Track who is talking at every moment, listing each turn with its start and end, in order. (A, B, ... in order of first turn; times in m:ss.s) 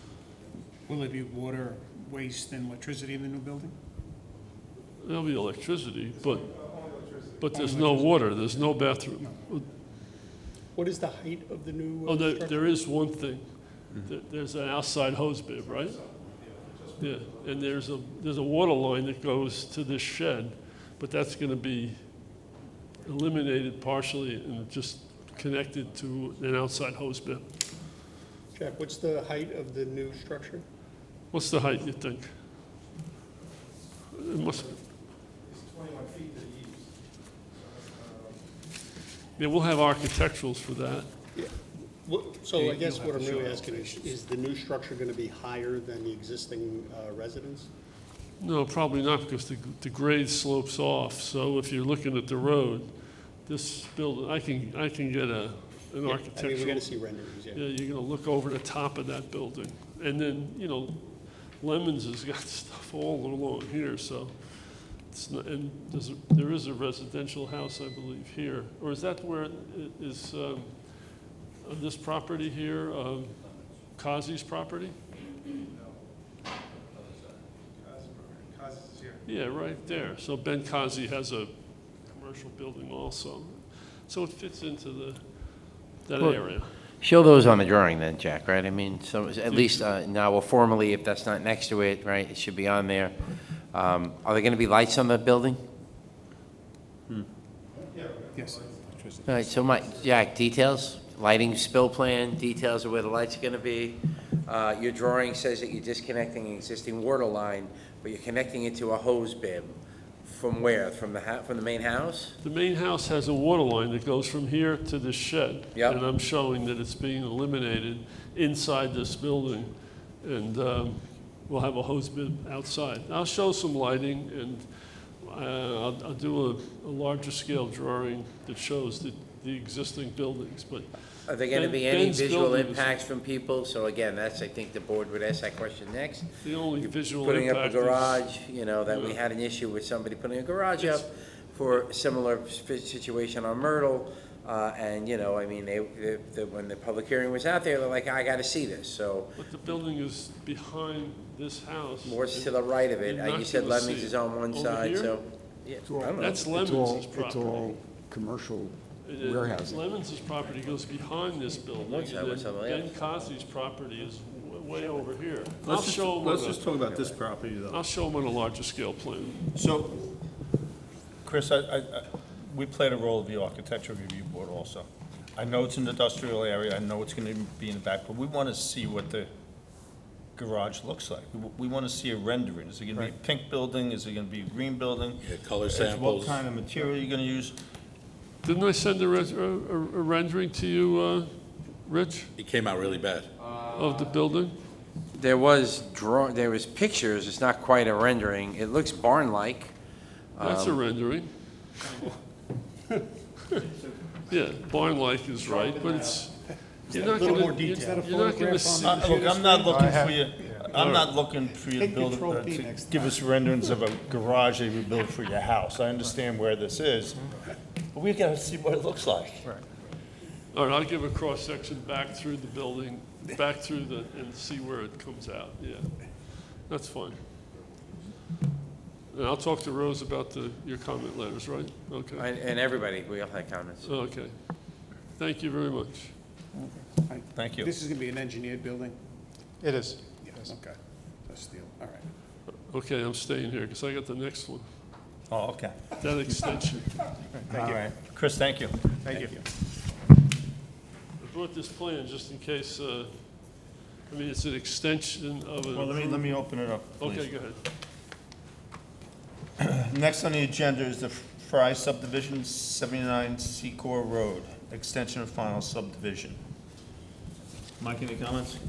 0:00.9-0:03.7 A
0:05.0-0:06.5 B
0:06.4-0:07.4 C
0:07.4-0:09.7 B
0:07.5-0:08.2 A
0:10.7-0:12.7 D
0:12.1-0:16.0 B
0:15.9-0:16.1 C
0:16.7-0:17.3 C
0:17.0-0:22.4 B
0:23.0-0:27.4 B
0:28.5-0:30.6 D
0:31.3-0:32.3 B
0:34.2-0:34.7 B
0:35.4-0:36.9 C
0:37.6-0:38.4 C
0:39.4-0:41.1 B
0:41.3-0:47.7 D
0:42.5-0:44.2 A
0:48.4-0:56.9 B
0:56.0-0:57.6 D
0:57.5-1:13.4 B
1:13.9-1:15.0 B
1:17.8-1:19.2 C
1:19.2-1:26.7 B
1:26.2-1:35.6 E
1:29.5-1:29.9 B
1:37.9-1:38.9 C
1:38.3-1:39.8 A
1:39.2-1:52.3 E
1:52.4-2:13.0 B
1:55.7-1:56.0 E
2:11.3-2:29.4 E
2:16.4-2:18.3 B
2:18.8-2:19.2 B
2:20.8-2:21.0 B
2:29.4-2:35.2 B
2:32.0-2:36.5 E
2:36.0-2:38.1 B
2:36.1-2:39.8 F
2:39.0-2:46.6 B
2:41.7-2:42.9 E
2:45.6-2:47.8 G
2:47.7-2:49.5 B
2:49.5-2:50.1 G
2:51.2-2:59.3 G
3:00.4-3:07.6 G
3:05.2-3:06.4 H
3:08.4-3:12.3 B
3:12.4-3:13.3 H
3:13.7-3:14.6 B
3:15.2-3:19.7 E
3:20.4-3:20.8 E
3:20.4-3:21.3 B
3:24.3-3:29.2 B
3:25.7-3:26.1 D
3:26.9-3:30.8 A
3:26.9-3:28.0 D
3:28.8-3:39.6 G
3:30.7-3:31.1 B
3:31.8-3:33.2 D
3:31.8-3:32.7 A
3:40.5-3:47.2 B
3:49.1-3:52.3 B
3:52.2-3:54.1 E
3:53.8-3:56.1 B
3:56.5-3:59.0 A
3:57.3-3:57.7 G
3:59.6-4:02.1 A
4:02.5-4:04.6 B
4:05.3-4:06.0 G
4:06.0-4:07.0 B
4:07.4-4:07.9 A
4:07.5-4:09.3 G
4:09.0-4:09.4 A
4:11.2-4:16.5 B
4:15.7-4:17.3 G
4:17.0-4:17.6 B
4:19.6-4:26.4 G
4:27.8-4:28.6 G